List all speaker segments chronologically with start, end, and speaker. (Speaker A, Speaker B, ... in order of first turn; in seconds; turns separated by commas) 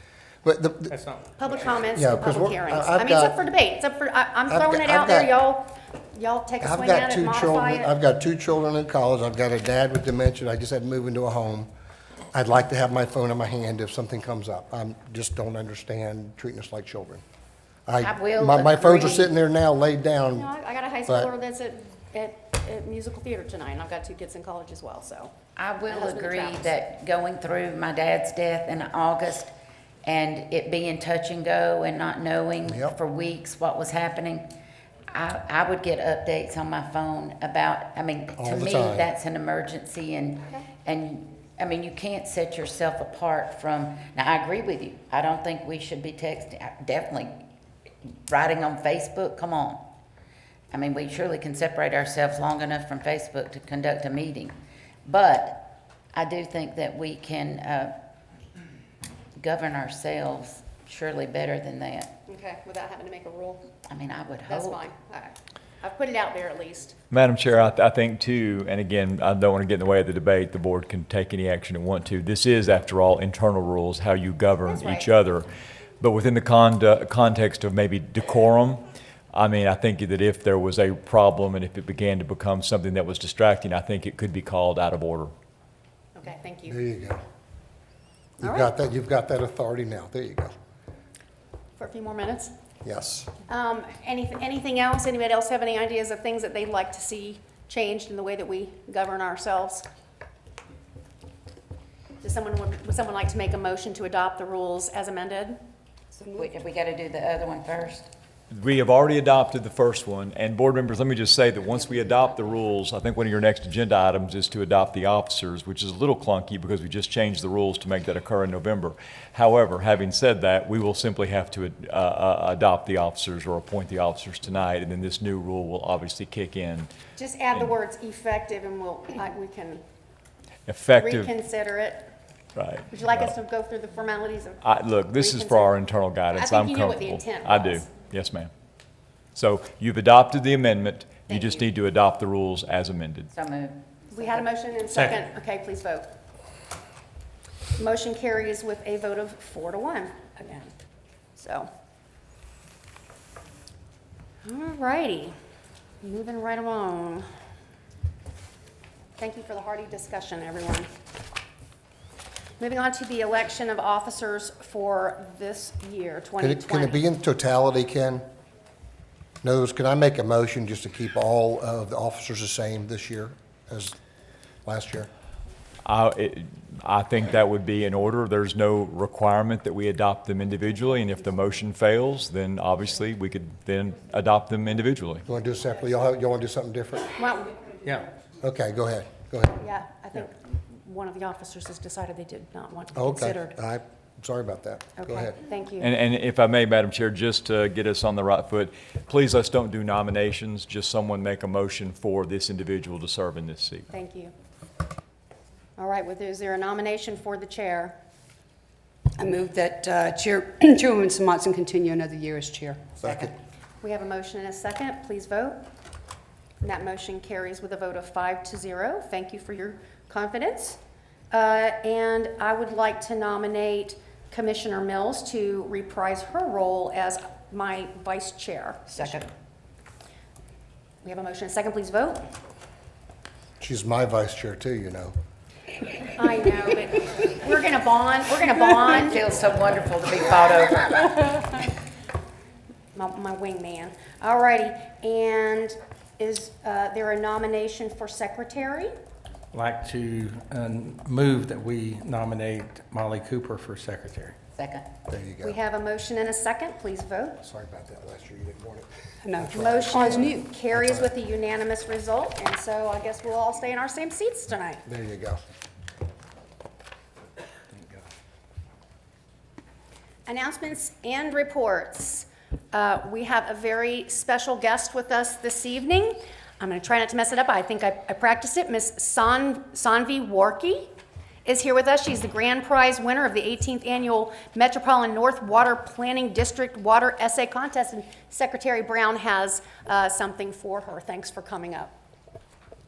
Speaker A: 0.4-0.9, Speaker B: 0.9-1.3, Speaker C: 1.4-7.9, Speaker A: 1.9-3.4, Speaker A: 4.5-5.3, Speaker A: 6.6-11.7, Speaker A: 12.3-17.2, Speaker A: 17.9-20.5, Speaker D: 18.0-19.3, Speaker C: 20.3-25.3, Speaker D: 25.6-29.5, Speaker C: 25.9-26.7, Speaker D: 30.0-34.5, Speaker A: 32.6-33.0, Speaker D: 35.1-47.4, Speaker A: 38.4-39.1, Speaker D: 48.0-49.9, Speaker D: 50.7-58.0, Speaker D: 59.4-62.1, Speaker C: 62.3-63.7, Speaker D: 63.9-64.8, Speaker C: 64.5-67.0, Speaker E: 67.1-75.5, Speaker C: 74.7-75.1, Speaker E: 76.0-78.8, Speaker E: 79.3-85.3, Speaker C: 86.1-86.8, Speaker A: 86.7-87.2, Speaker A: 88.4-90.5, Speaker C: 88.4-88.7, Speaker C: 91.8-92.5, Speaker A: 92.8-93.3, Speaker C: 93.5-99.8, Speaker C: 102.2-105.6, Speaker F: 106.2-106.5, Speaker D: 106.3-108.1, Speaker E: 108.5-126.9, Speaker D: 111.6-112.7, Speaker C: 127.2-129.8, Speaker E: 130.7-131.3, Speaker C: 130.9-132.1, Speaker E: 132.6-133.3, Speaker C: 132.9-135.7, Speaker E: 134.6-138.5, Speaker C: 136.3-137.8, Speaker E: 139.3-143.3, Speaker C: 141.3-141.7, Speaker D: 143.3-144.4, Speaker C: 144.1-146.1, Speaker B: 144.9-145.2, Speaker C: 147.8-150.6, Speaker C: 151.4-151.7, Speaker C: 154.4-155.3, Speaker C: 156.0-157.2, Speaker C: 159.2-160.9, Speaker C: 162.6-167.0, Speaker A: 166.4-168.2, Speaker A: 169.4-173.9, Speaker A: 174.6-175.1, Speaker E: 175.8-185.2, Speaker A: 185.2-187.2, Speaker C: 187.2-187.7, Speaker B: 187.8-188.1, Speaker A: 188.4-189.6, Speaker C: 189.6-193.6, Speaker A: 192.9-195.3, Speaker C: 195.0-195.9, Speaker E: 195.8-203.9, Speaker C: 203.9-204.3, Speaker C: 205.8-207.9, Speaker F: 209.2-213.0, Speaker A: 213.0-213.3, Speaker C: 213.8-215.6, Speaker C: 216.6-220.8, Speaker C: 221.3-229.2, Speaker C: 231.0-232.2, Speaker A: 233.6-235.1, Speaker C: 236.1-239.2, Speaker D: 238.8-241.7, Speaker C: 242.9-248.9, Speaker B: 249.5-254.4, Speaker D: 254.6-254.9, Speaker A: 255.1-255.6, Speaker C: 255.4-257.4, Speaker A: 257.4-261.1, Speaker F: 259.2-260.5, Speaker C: 259.4-264.8, Speaker A: 264.9-265.4, Speaker C: 270.2-280.9, Speaker C: 281.4-291.9